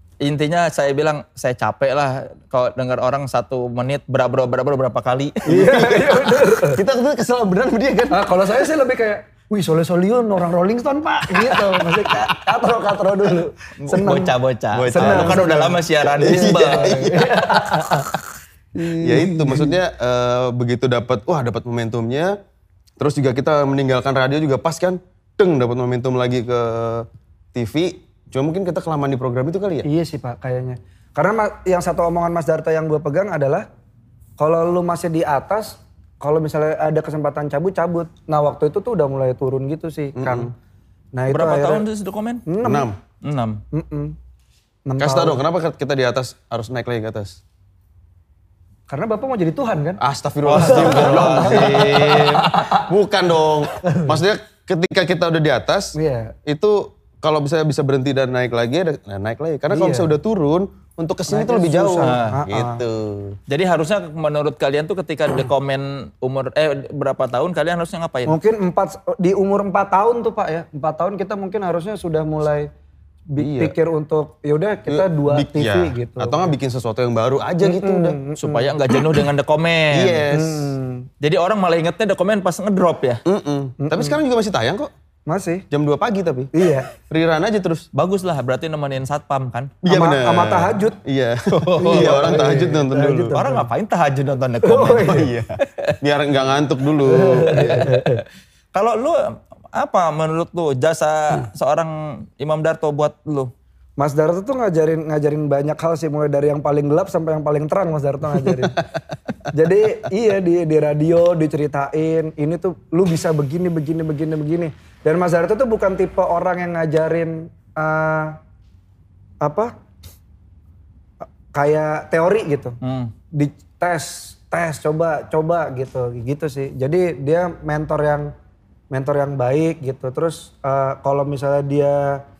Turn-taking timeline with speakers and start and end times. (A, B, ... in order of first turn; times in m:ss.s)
0:00.2-0:05.6 A
0:05.4-0:06.8 B
0:05.4-0:08.2 C
0:08.1-0:14.3 B
0:11.4-0:12.0 C
0:13.8-0:17.1 A
0:14.7-0:15.6 C
0:14.9-0:18.2 B
0:16.2-0:17.4 C
0:18.7-0:19.8 B
0:19.0-0:22.4 C
0:23.0-0:29.8 C
0:29.8-0:33.6 B
0:34.4-0:40.5 B
0:40.2-0:40.5 C
0:41.1-0:41.8 B
0:41.3-0:42.4 A
0:42.4-0:42.9 B
0:42.6-0:43.0 C
0:43.2-0:43.6 A
0:43.7-0:44.2 B
0:44.8-0:45.4 B
0:45.0-0:47.4 C
0:48.9-0:50.0 B
0:50.0-1:03.4 C
0:50.4-0:52.5 A
0:50.5-0:52.9 B
0:53.8-0:54.2 B
0:55.9-0:56.4 B
0:59.7-1:00.1 B
1:01.3-1:02.8 B
1:02.0-1:02.4 A
1:03.5-1:08.3 A
1:08.3-1:12.7 B
1:13.3-1:16.5 B
1:13.4-1:13.7 C
1:14.9-1:18.2 C
1:17.6-1:18.7 B
1:18.4-1:20.2 A
1:19.9-1:20.7 C
1:20.3-1:21.1 B
1:21.2-1:23.2 A
1:23.2-1:24.9 C
1:23.8-1:24.2 B
1:25.3-1:25.6 B
1:25.7-1:27.8 C
1:26.5-1:26.9 B
1:27.9-1:29.8 A
1:29.8-1:33.3 C
1:29.9-1:31.0 B
1:31.5-1:36.0 A
1:31.8-1:33.7 B
1:34.6-1:35.3 B
1:35.0-1:38.0 C
1:37.1-1:38.2 B
1:37.5-1:38.2 A
1:38.7-1:43.5 A
1:44.0-1:48.8 B
1:49.5-1:58.4 B
1:59.4-1:59.7 B
2:01.2-2:02.8 B
2:02.8-2:03.1 A
2:03.3-2:08.3 B
2:08.9-2:12.2 B